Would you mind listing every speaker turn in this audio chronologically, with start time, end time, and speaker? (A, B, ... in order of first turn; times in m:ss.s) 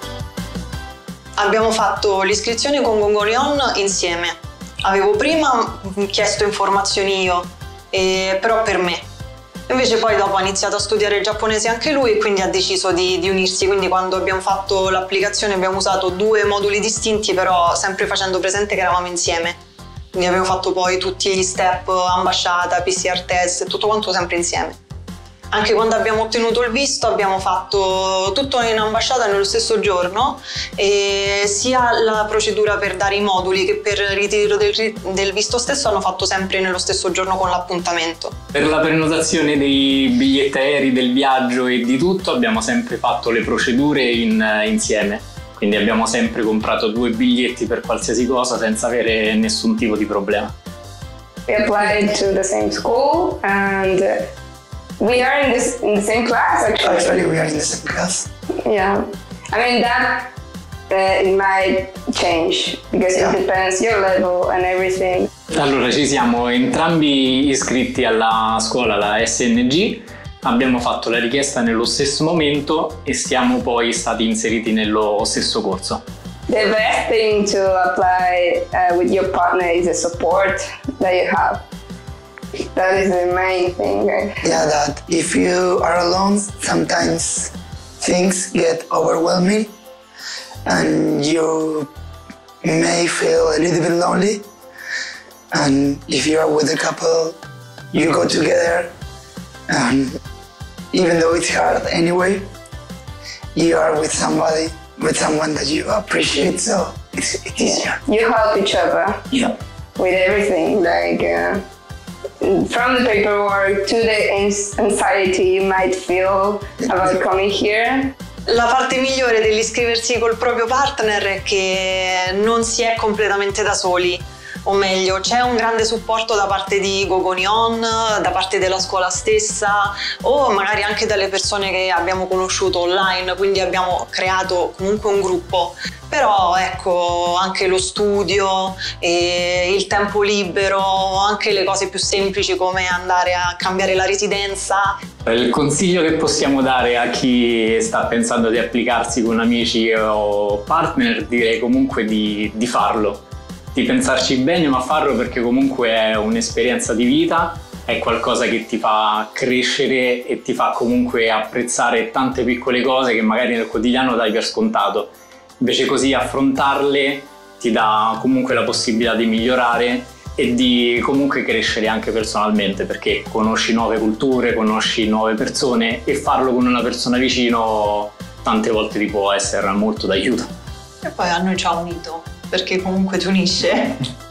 0:01.4-0:09.0 A
0:09.7-0:19.6 A
0:20.1-0:24.8 A
0:25.5-0:38.3 A
0:38.5-0:50.5 B
0:51.4-0:54.3 C
0:55.0-0:57.0 C
0:56.8-0:58.3 D
0:58.6-1:00.3 C
1:00.9-1:05.3 C
1:05.5-1:16.0 B
1:16.5-1:21.6 C
1:22.7-1:24.4 C
1:24.4-1:29.7 D
1:30.6-1:31.9 D
1:32.6-1:34.4 D
1:35.5-1:37.4 D
1:37.9-1:38.9 D
1:39.7-1:40.2 D
1:40.9-1:42.4 D
1:43.5-1:48.0 D
1:47.7-1:49.4 C
1:50.0-1:51.6 C
1:52.4-1:58.1 C
1:58.5-2:25.0 A
2:25.2-3:00.5 B
3:01.0-3:04.0 A